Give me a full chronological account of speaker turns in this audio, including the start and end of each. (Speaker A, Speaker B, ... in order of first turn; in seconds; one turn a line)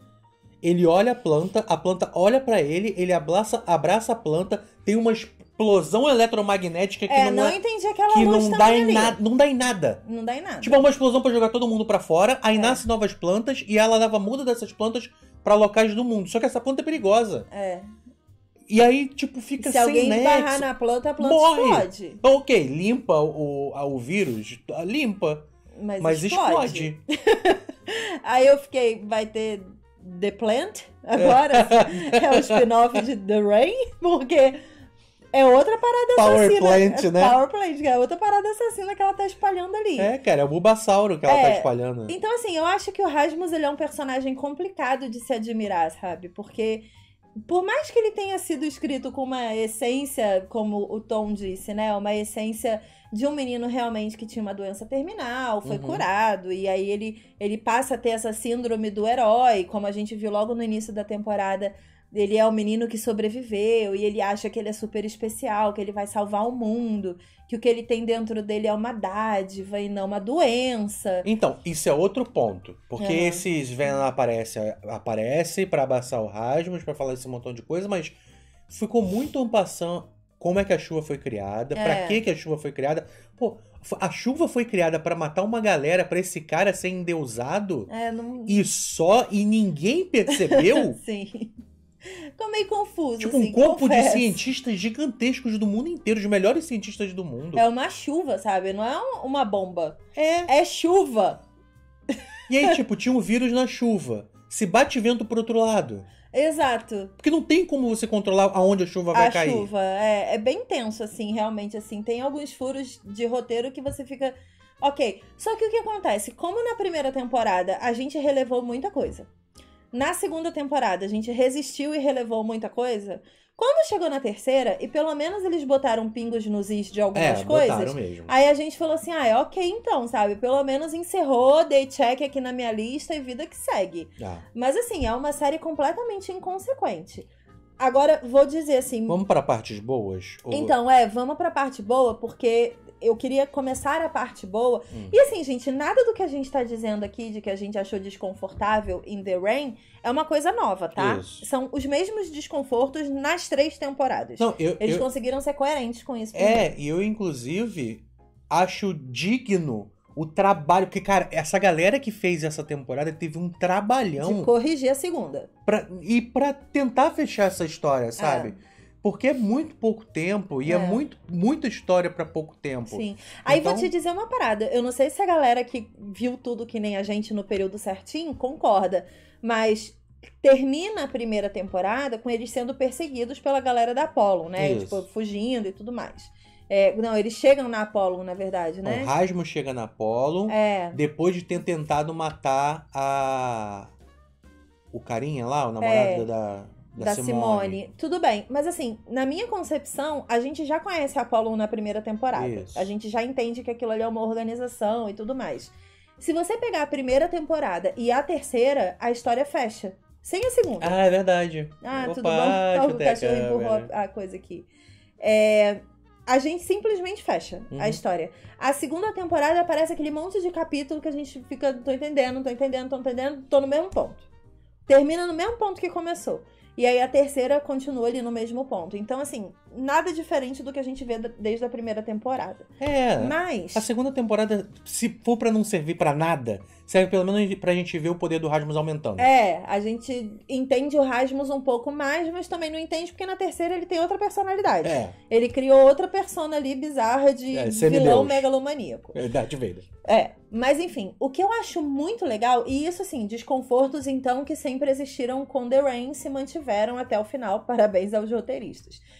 Speaker A: 0.6-7.6
Speaker B: 7.1-9.2
Speaker A: 8.1-10.0
Speaker B: 10.0-10.8
Speaker A: 10.6-17.5
Speaker B: 12.5-12.8
Speaker B: 17.5-17.9
Speaker A: 18.7-20.7
Speaker B: 19.6-22.2
Speaker A: 21.2-25.5
Speaker B: 25.8-34.6
Speaker A: 26.0-27.0
Speaker A: 31.1-32.6
Speaker B: 35.3-40.1
Speaker A: 36.2-37.4
Speaker A: 40.0-42.1
Speaker B: 41.3-46.9
Speaker B: 47.4-71.3
Speaker A: 55.7-56.0
Speaker A: 71.2-78.2
Speaker B: 73.0-73.4
Speaker A: 78.7-87.9
Speaker B: 81.8-82.2
Speaker B: 87.9-88.7
Speaker A: 88.5-91.0
Speaker B: 90.3-91.5
Speaker B: 92.0-94.4
Speaker A: 93.2-97.7
Speaker B: 97.5-101.4
Speaker A: 100.2-100.5
Speaker A: 102.5-106.1
Speaker B: 106.3-107.1
Speaker A: 107.2-109.7
Speaker B: 109.1-119.3
Speaker B: 119.9-139.2
Speaker A: 127.2-128.3
Speaker A: 134.2-134.4
Speaker A: 139.1-140.8
Speaker B: 140.5-156.7
Speaker A: 150.9-151.5
Speaker A: 154.4-155.1
Speaker A: 156.3-164.5
Speaker B: 164.2-165.5
Speaker A: 165.7-173.9
Speaker B: 168.2-168.6
Speaker B: 170.7-171.0
Speaker B: 172.9-189.1
Speaker A: 184.6-185.0
Speaker A: 188.8-193.9
Speaker B: 190.5-191.0
Speaker A: 194.9-197.8
Speaker B: 195.8-196.3
Speaker B: 197.0-211.0
Speaker A: 202.3-202.9
Speaker A: 210.8-213.9
Speaker B: 211.8-214.7
Speaker B: 215.2-224.3
Speaker A: 217.7-218.0
Speaker B: 224.9-233.9
Speaker A: 232.8-239.3
Speaker B: 239.2-249.2
Speaker A: 244.8-245.1
Speaker A: 247.5-248.5
Speaker A: 249.2-249.9
Speaker B: 250.1-259.0